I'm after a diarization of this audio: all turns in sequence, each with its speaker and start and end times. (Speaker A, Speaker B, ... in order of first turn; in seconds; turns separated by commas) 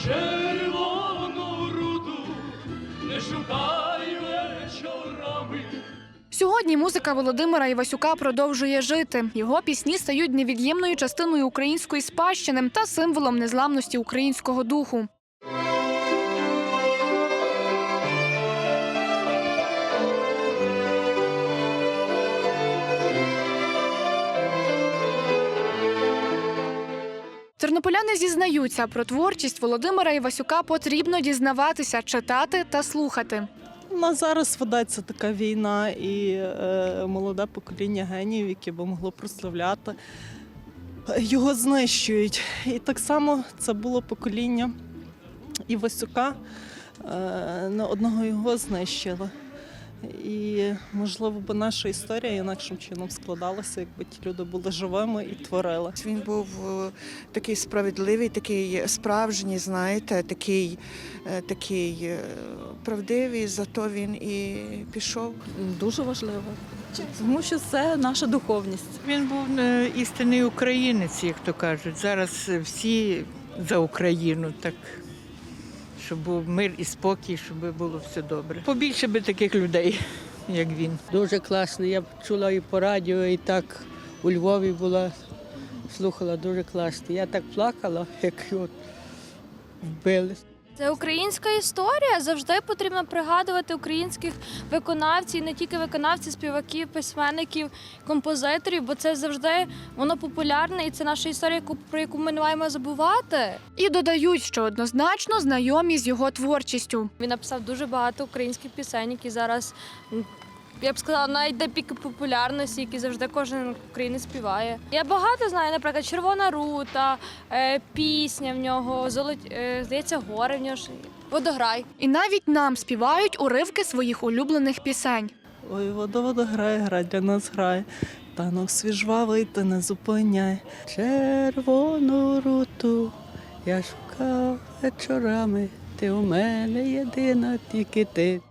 Speaker A: 0.4-2.3, Speaker A: 3.1-5.5, Speaker B: 6.3-15.1, Speaker B: 27.6-33.5, Speaker A: 33.9-40.0, Speaker A: 41.1-44.7, Speaker A: 45.7-46.4, Speaker A: 47.0-49.3, Speaker A: 50.0-56.0, Speaker C: 56.0-65.4, Speaker D: 65.5-69.0, Speaker E: 69.0-75.0, Speaker E: 76.0-81.0, Speaker F: 81.1-85.1, Speaker F: 85.9-88.7, Speaker F: 89.8-90.4, Speaker G: 90.8-103.6, Speaker B: 103.8-107.1, Speaker G: 107.2-121.9, Speaker B: 122.0-125.3, Speaker A: 125.7-130.6, Speaker F: 130.9-138.4